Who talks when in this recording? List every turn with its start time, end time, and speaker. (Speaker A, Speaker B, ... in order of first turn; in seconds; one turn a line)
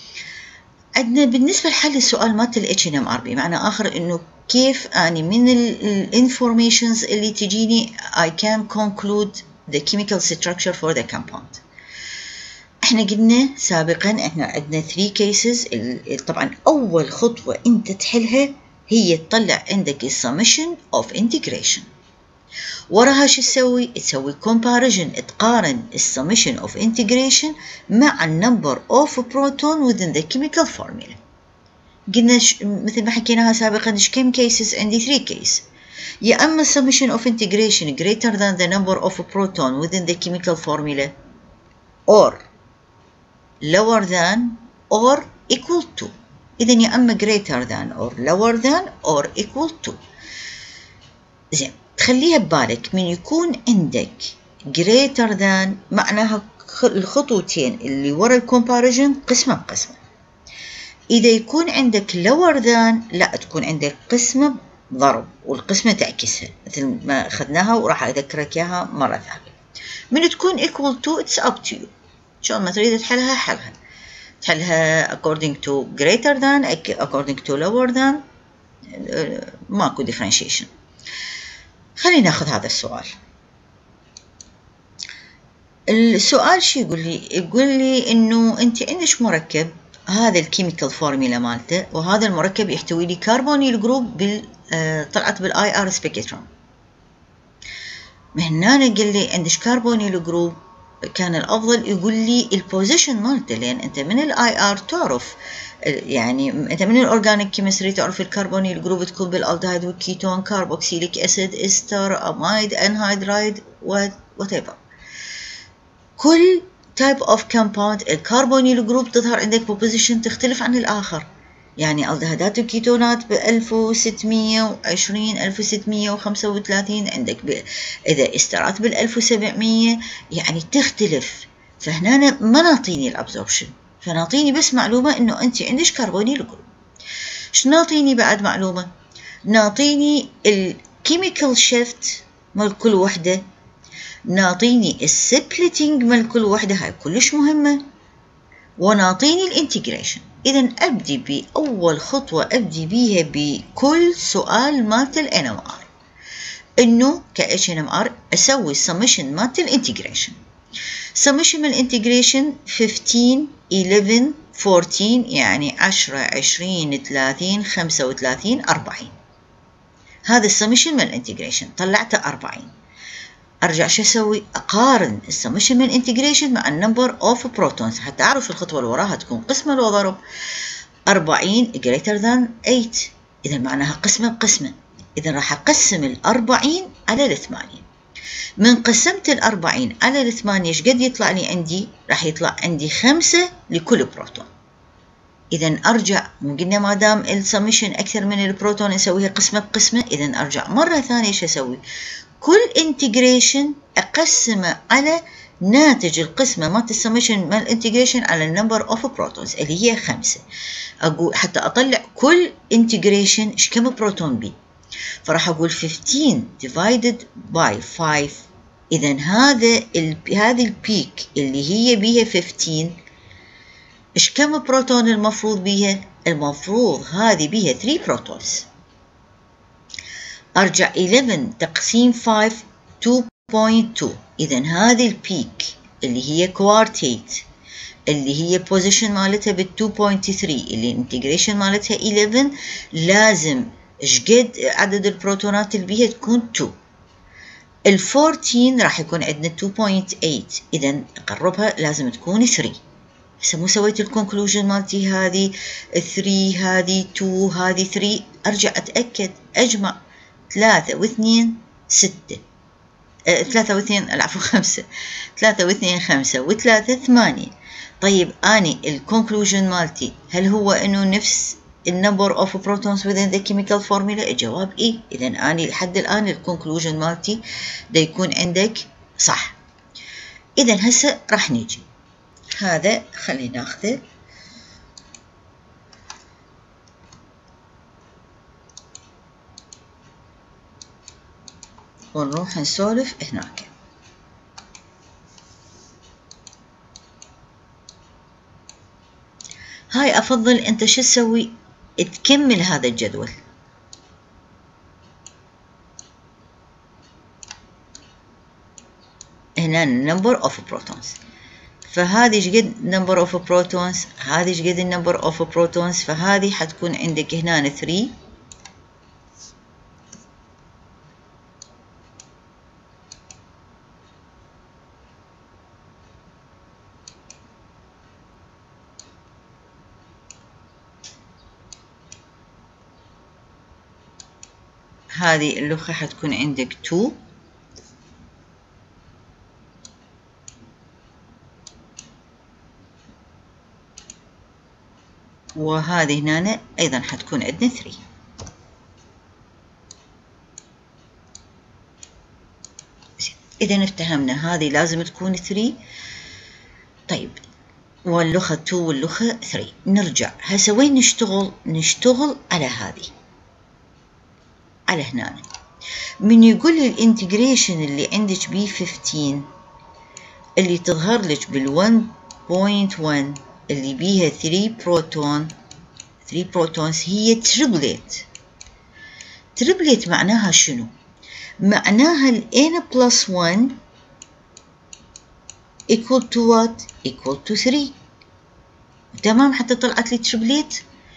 Speaker A: 1.0-11.6
Speaker A: 12.8-21.9
Speaker A: 22.9-31.2
Speaker A: 32.1-35.6
Speaker A: 36.2-41.1
Speaker A: 42.1-42.4
Speaker A: 43.6-50.0
Speaker A: 51.5-60.0
Speaker A: 61.1-69.5
Speaker A: 70.1-73.8
Speaker A: 74.4-78.2
Speaker A: 78.9-80.7
Speaker A: 82.0-83.2
Speaker A: 85.9-96.5
Speaker A: 98.3-114.8
Speaker A: 116.2-121.2
Speaker A: 121.8-136.7
Speaker A: 137.5-138.9
Speaker A: 139.4-143.4
Speaker A: 144.3-147.8
Speaker A: 148.8-155.9
Speaker A: 156.8-160.4
Speaker A: 161.1-169.1
Speaker A: 170.2-172.7
Speaker A: 173.6-180.2
Speaker A: 181.1-187.8
Speaker A: 188.6-194.5
Speaker A: 195.5-201.8
Speaker A: 202.4-210.4
Speaker A: 211.0-214.5
Speaker A: 215.2-223.0
Speaker A: 224.1-228.7
Speaker A: 230.6-237.4
Speaker A: 238.1-246.8
Speaker A: 247.8-252.8
Speaker A: 253.4-260.0
Speaker A: 260.5-262.4
Speaker A: 263.3-279.6
Speaker A: 280.6-281.8
Speaker A: 282.5-284.0
Speaker A: 292.1-293.7
Speaker A: 299.9-303.3
Speaker A: 309.6-311.2
Speaker A: 311.8-318.1
Speaker A: 335.1-337.2
Speaker A: 345.6-348.0
Speaker A: 353.3-355.8
Speaker A: 357.1-357.4
Speaker A: 358.0-363.1
Speaker A: 364.9-365.4
Speaker A: 366.2-369.5
Speaker A: 370.6-375.5
Speaker A: 376.2-378.3
Speaker A: 379.6-380.9
Speaker A: 381.6-383.8
Speaker A: 385.9-387.9
Speaker A: 389.1-390.8